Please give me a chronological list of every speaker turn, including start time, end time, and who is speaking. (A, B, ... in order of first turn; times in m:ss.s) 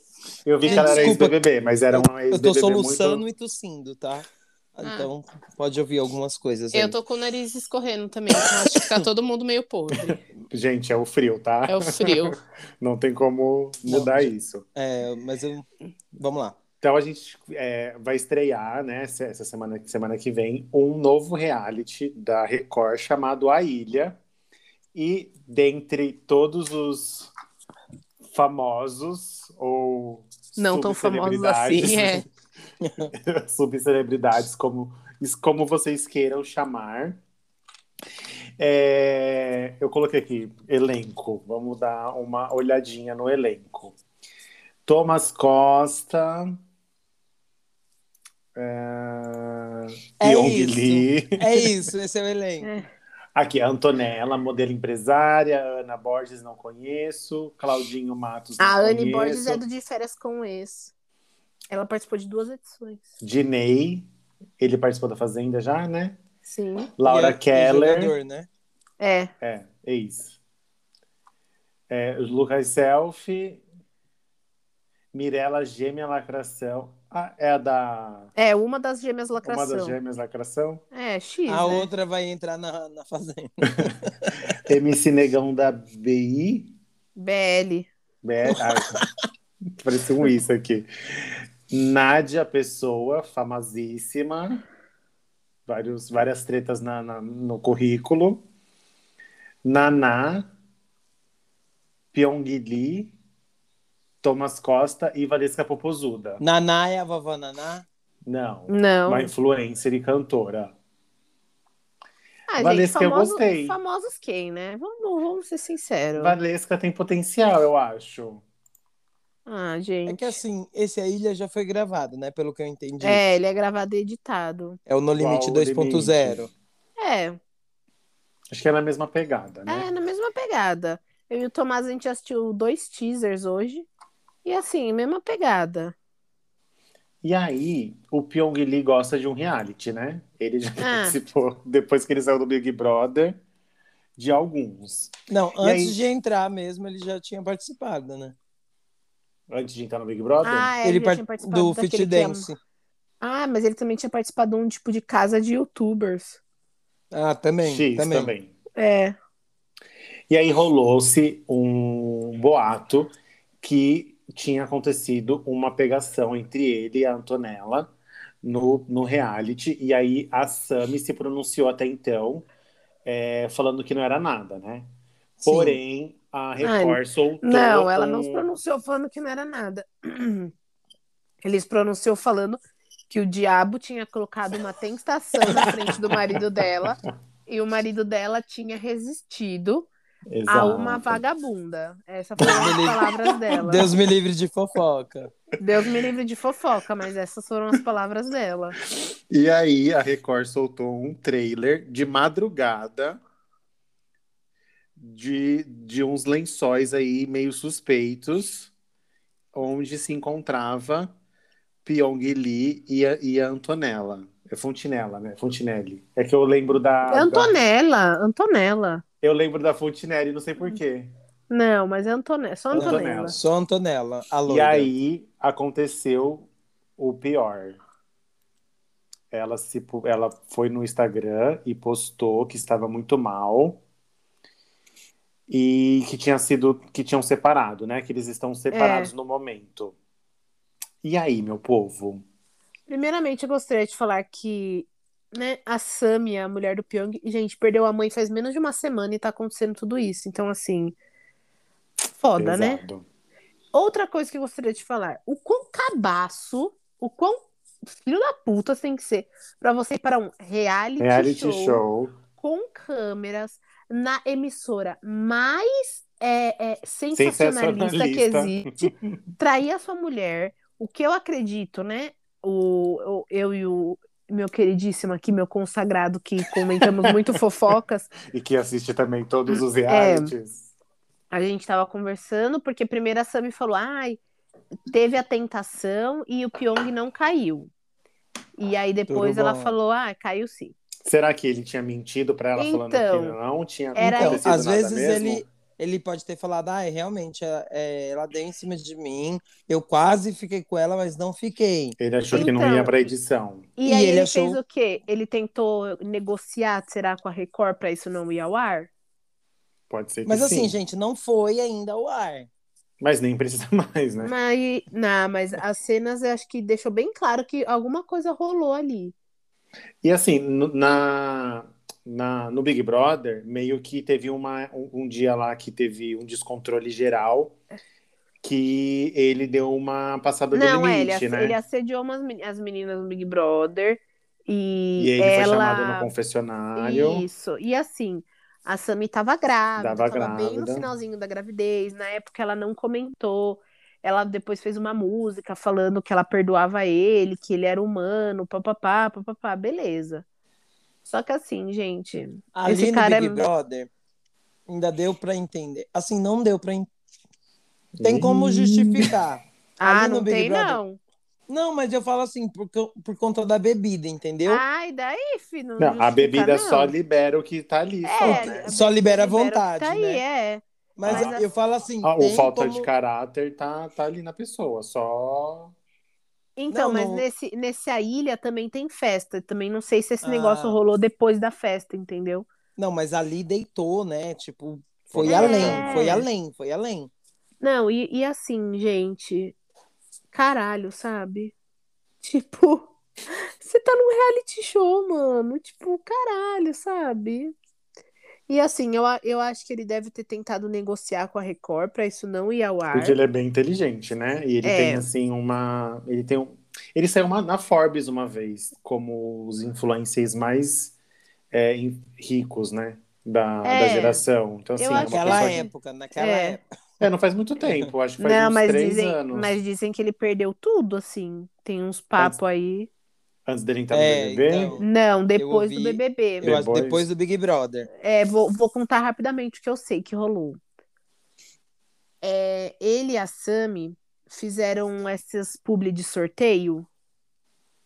0:00.4-0:03.2 A
0:00.6-0:01.1 B
0:00.6-0:01.4 C
0:01.9-0:07.0 C
0:04.8-0:05.1 B
0:06.7-0:10.2 B
0:10.1-0:14.6 A
0:11.7-0:12.4 B
0:13.9-0:16.6 C
0:16.8-0:24.2 A
0:24.9-0:27.3 A
0:28.3-0:32.2 A
0:30.6-0:32.2 B
0:32.8-0:33.1 C
0:33.1-0:37.2 A
0:38.6-0:44.0 A
0:44.8-0:46.5 A
0:48.5-0:51.7 A
0:50.2-0:52.7 C
0:53.3-0:59.6 A
0:58.6-1:00.9 B
1:01.7-1:03.0 B
1:03.2-1:04.1 A
1:04.6-1:06.2 A
1:06.4-1:06.9 B
1:07.0-1:08.1 A
1:07.0-1:08.5 C
1:09.0-1:09.3 B
1:09.4-1:10.4 A
1:11.9-1:13.6 A
1:15.1-1:18.3 A
1:18.4-1:20.0 B
1:19.4-1:20.8 A
1:20.9-1:21.9 B
1:21.5-1:24.3 C
1:24.6-1:26.7 A
1:27.2-1:27.9 B
1:28.2-1:29.0 A
1:28.5-1:29.0 C
1:29.8-1:34.6 A
1:35.7-1:38.4 A
1:39.6-1:40.5 A
1:42.1-1:43.1 A
1:44.2-1:46.4 A
1:46.4-1:47.8 C
1:48.2-1:50.7 A
1:48.7-1:49.3 B
1:52.5-1:56.4 B
1:52.6-1:53.8 A
1:56.2-1:58.4 A
1:59.4-2:00.4 B
2:00.0-2:03.2 C
2:03.0-2:04.8 B
2:04.9-2:06.5 C
2:05.2-2:06.5 A
2:07.0-2:07.4 B
2:08.5-2:09.9 A
2:09.7-2:13.9 B
2:14.4-2:15.9 B
2:17.2-2:23.4 A
2:20.8-2:21.2 B
2:24.2-2:26.0 A
2:25.3-2:28.4 C
2:29.5-2:30.7 A
2:30.4-2:32.4 B
2:30.8-2:32.6 C
2:33.2-2:36.4 B
2:37.1-2:38.3 C
2:37.6-2:38.5 A
2:38.8-2:39.2 B
2:40.3-2:47.9 A
2:48.4-2:52.5 A
2:53.0-2:54.9 A
2:55.4-2:55.8 C
2:55.4-2:58.4 A
2:56.6-3:00.5 B
3:01.4-3:02.6 B
3:03.1-3:09.9 B
3:05.5-3:06.2 A
3:10.3-3:11.2 A
3:10.5-3:13.9 B
3:12.4-3:13.0 C
3:13.6-3:15.3 C
3:15.6-3:18.7 B
3:19.3-3:23.2 A
3:25.0-3:28.7 A
3:29.5-3:31.1 A
3:31.8-3:37.5 A
3:37.1-3:39.0 B
3:39.2-3:41.1 A
3:41.5-3:43.3 B
3:42.7-3:43.4 A
3:42.7-3:44.9 C
3:44.4-3:47.8 A
3:49.3-3:53.8 A
3:55.5-4:00.0 A
3:58.7-3:59.1 B
4:01.0-4:02.2 A
4:02.9-4:11.0 B
4:12.1-4:12.8 B
4:12.4-4:13.0 A
4:13.7-4:17.4 B
4:17.9-4:21.8 B
4:21.0-4:22.2 A
4:22.4-4:38.1 B
4:27.1-4:29.2 A
4:36.5-4:37.3 A
4:38.2-4:40.6 A
4:39.5-4:40.3 B
4:41.3-4:44.2 B
4:44.9-4:47.7 B
4:48.6-4:50.7 B
4:49.1-4:49.7 C
4:51.0-4:55.4 A
4:52.6-4:53.4 B
4:54.0-4:54.4 B
4:54.1-5:02.0 C
5:02.0-5:03.7 A
5:02.3-5:03.0 B
5:03.8-5:08.9 B
5:03.8-5:04.6 C
5:09.9-5:10.8 A
5:10.2-5:12.5 C
5:13.0-5:14.3 A
5:14.2-5:19.1 B
5:20.0-5:27.6 A
5:28.4-5:31.6 A
5:30.5-5:36.1 B
5:35.0-5:37.2 A
5:36.8-5:50.2 B
5:39.8-5:40.9 A
5:51.0-5:53.4 B
5:52.5-5:53.9 C
5:54.7-5:56.9 C
5:58.0-5:59.1 A
5:58.0-6:00.8 C
5:59.8-6:01.0 B
6:01.5-6:04.6 C
6:04.4-6:06.9 B
6:05.8-6:08.7 A
6:08.0-6:11.4 B
6:08.2-6:10.2 C
6:11.0-6:12.9 C
6:11.0-6:11.4 A
6:12.0-6:15.7 A
6:16.6-6:22.5 B
6:16.7-6:17.2 C
6:20.2-6:20.8 C
6:22.8-6:27.1 C
6:25.1-6:26.1 A
6:25.2-6:26.2 B
6:27.6-6:29.5 B
6:30.3-6:31.5 B
6:32.2-6:37.5 B
6:38.5-6:43.2 B
6:42.9-6:50.9 A
6:44.6-6:45.1 B
6:51.5-6:55.6 A
6:53.6-6:54.2 B
6:54.8-6:56.6 B
6:54.9-6:56.6 C
6:57.0-6:59.5 A
6:57.6-6:57.9 C
6:58.2-7:02.9 B
7:03.4-7:04.7 A
7:03.9-7:07.9 C
7:04.8-7:06.5 B
7:06.4-7:07.0 A
7:08.0-7:10.6 B
7:12.2-7:16.9 B